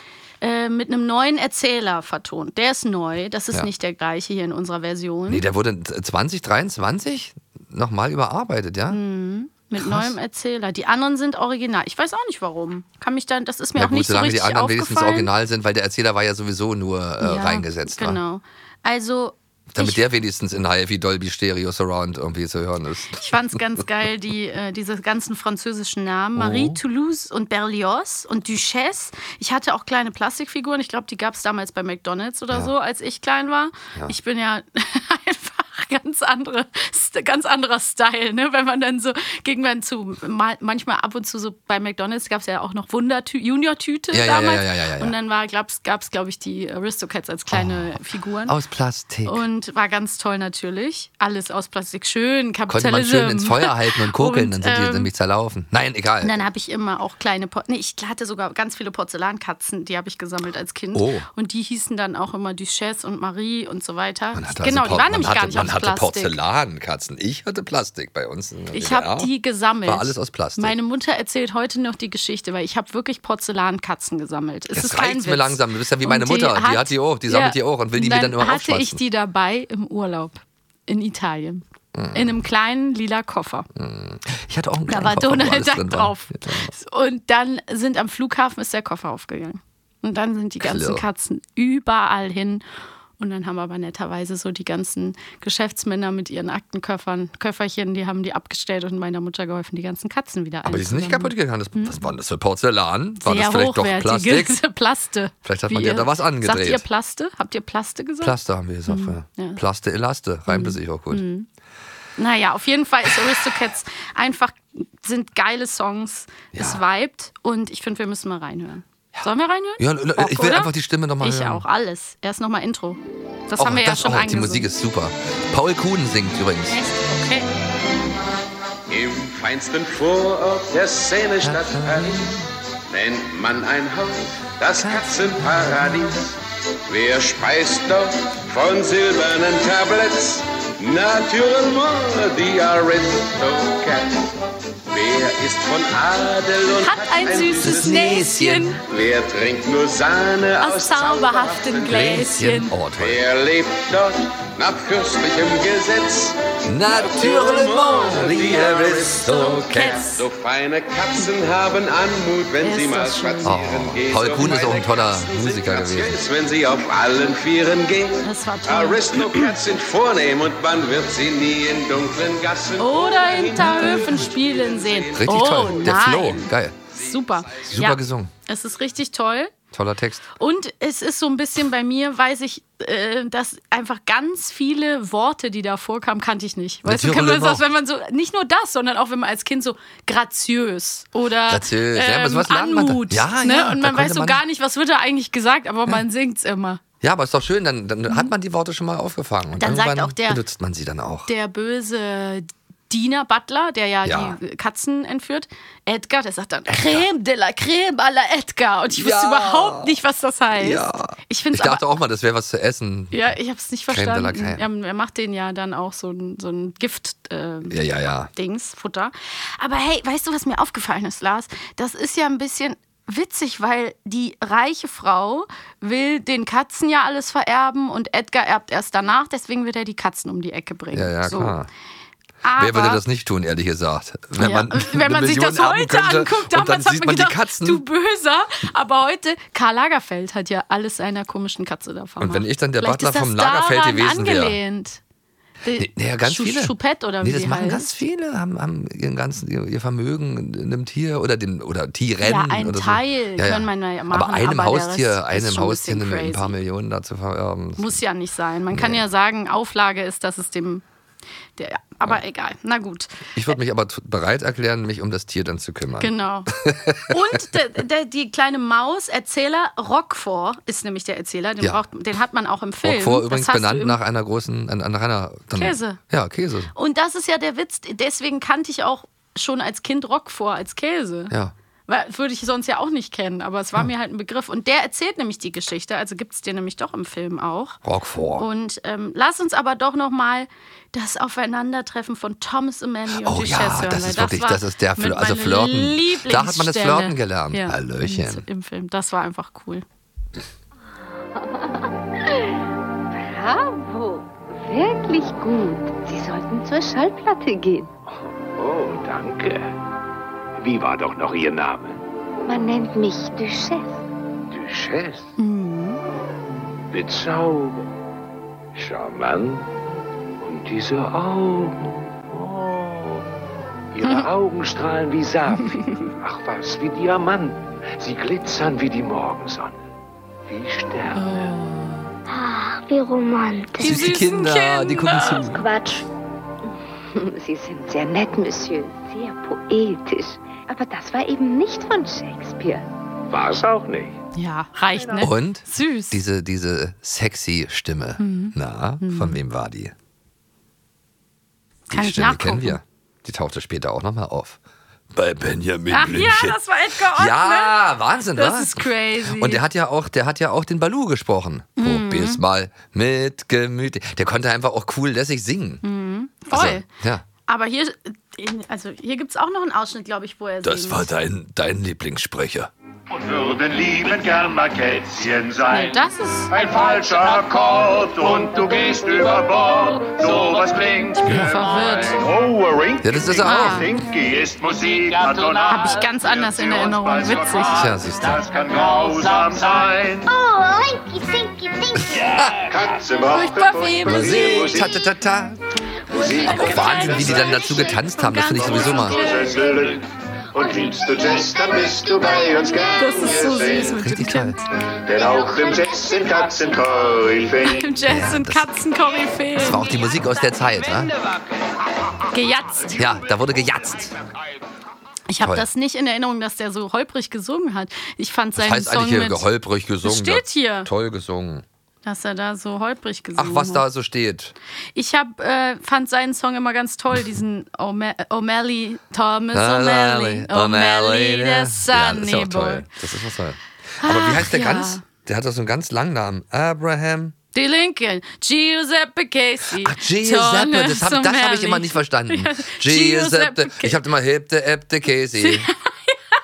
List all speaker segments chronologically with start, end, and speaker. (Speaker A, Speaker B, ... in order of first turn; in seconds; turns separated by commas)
Speaker A: 0.4-5.4, Speaker B: 5.3-9.0, Speaker A: 8.9-15.3, Speaker B: 9.8-10.1, Speaker B: 13.8-18.2, Speaker A: 17.2-20.0, Speaker B: 19.7-23.4, Speaker A: 23.2-48.5, Speaker B: 26.4-26.8, Speaker B: 44.1-45.1, Speaker B: 47.5-49.4, Speaker A: 49.2-55.1, Speaker B: 52.7-56.4, Speaker A: 56.2-66.4, Speaker B: 60.9-61.3, Speaker B: 64.3-69.3, Speaker A: 68.7-83.7, Speaker B: 69.8-70.8, Speaker B: 74.7-79.0, Speaker B: 81.9-82.4, Speaker B: 83.8-86.7, Speaker A: 84.9-92.6, Speaker B: 90.6-91.0, Speaker A: 93.2-102.0, Speaker B: 100.6-104.6, Speaker A: 103.2-109.6, Speaker B: 105.4-106.8, Speaker B: 108.2-111.2, Speaker A: 110.5-111.5, Speaker A: 112.2-124.7, Speaker B: 116.5-116.8, Speaker B: 119.8-121.6, Speaker B: 123.6-126.8, Speaker A: 126.7-127.5, Speaker C: 128.9-136.3, Speaker B: 131.4-132.5, Speaker B: 134.8-135.7, Speaker C: 136.9-144.3, Speaker C: 144.9-148.2, Speaker A: 146.8-148.8, Speaker B: 147.6-148.8, Speaker C: 148.9-152.4, Speaker A: 150.6-152.8, Speaker B: 151.8-153.2, Speaker C: 152.9-176.4, Speaker B: 156.7-160.1, Speaker A: 158.2-158.6, Speaker A: 159.2-160.3, Speaker A: 162.6-163.6, Speaker B: 163.4-166.2, Speaker A: 168.2-169.6, Speaker A: 172.8-179.5, Speaker B: 173.6-173.9, Speaker B: 175.2-176.9, Speaker C: 176.9-177.7, Speaker B: 177.6-178.3, Speaker B: 179.7-180.3, Speaker A: 180.4-196.8, Speaker B: 186.8-187.6, Speaker B: 191.5-194.4, Speaker B: 197.0-201.3, Speaker A: 199.6-200.4, Speaker A: 201.3-211.8, Speaker B: 204.1-204.4, Speaker B: 206.7-207.1, Speaker B: 208.9-210.0, Speaker B: 210.6-213.3, Speaker A: 213.1-217.8, Speaker B: 213.9-214.6, Speaker B: 217.7-218.3, Speaker A: 218.3-231.6, Speaker B: 230.9-231.7, Speaker A: 232.4-233.0, Speaker B: 232.6-237.8, Speaker A: 234.4-245.0, Speaker B: 242.2-244.6, Speaker A: 245.6-247.9, Speaker B: 245.8-258.0, Speaker A: 252.2-256.6, Speaker A: 257.8-260.8, Speaker B: 258.7-259.0, Speaker A: 261.6-263.5, Speaker B: 263.4-267.4, Speaker A: 266.0-274.0, Speaker B: 272.8-276.7, Speaker A: 275.6-276.0, Speaker A: 276.8-281.4, Speaker A: 281.9-287.8, Speaker B: 287.9-288.4, Speaker A: 288.4-299.8, Speaker B: 293.2-298.4, Speaker D: 301.4-302.4, Speaker D: 303.2-307.9, Speaker E: 308.1-309.6, Speaker E: 310.6-312.0, Speaker D: 312.4-314.0, Speaker E: 314.5-315.3, Speaker A: 315.4-316.0, Speaker E: 316.9-317.9, Speaker E: 318.8-319.7, Speaker E: 320.4-323.2, Speaker E: 323.9-329.9, Speaker A: 325.6-325.9, Speaker E: 330.5-331.6, Speaker A: 331.1-332.1, Speaker F: 332.3-333.9, Speaker A: 333.8-335.5, Speaker B: 333.8-335.6, Speaker F: 335.6-336.0, Speaker D: 337.1-342.9, Speaker E: 343.3-344.2, Speaker A: 344.4-346.2, Speaker B: 345.2-349.9, Speaker A: 348.2-349.4, Speaker A: 351.9-352.8, Speaker B: 351.9-354.6, Speaker B: 355.1-365.8, Speaker A: 355.9-357.8, Speaker A: 358.4-359.6, Speaker A: 361.8-362.4, Speaker A: 365.8-366.9, Speaker B: 366.5-367.2, Speaker A: 367.5-371.1, Speaker B: 370.6-372.7, Speaker G: 373.1-390.3, Speaker A: 375.7-376.6, Speaker A: 381.2-382.2, Speaker B: 383.0-383.9, Speaker A: 383.4-383.9, Speaker A: 385.7-387.9, Speaker B: 387.6-388.4, Speaker F: 390.3-392.2, Speaker B: 392.0-392.7, Speaker G: 392.1-395.0, Speaker A: 393.3-394.9, Speaker B: 394.0-395.6, Speaker G: 396.1-397.6, Speaker A: 396.1-399.6, Speaker B: 396.4-399.2, Speaker G: 398.5-404.0, Speaker F: 400.9-402.9, Speaker A: 402.9-404.7, Speaker B: 403.8-404.6, Speaker G: 404.9-407.9, Speaker A: 407.6-409.9, Speaker B: 408.0-408.8, Speaker B: 409.6-411.1, Speaker A: 412.3-413.1, Speaker B: 412.9-414.1, Speaker A: 415.3-419.5, Speaker B: 415.4-415.6, Speaker B: 418.6-421.6, Speaker A: 420.0-420.9, Speaker A: 422.0-423.9, Speaker B: 423.4-424.5, Speaker A: 424.9-432.9, Speaker B: 429.5-437.3, Speaker A: 434.0-435.0, Speaker A: 437.5-444.0, Speaker B: 439.8-445.7, Speaker A: 445.4-446.2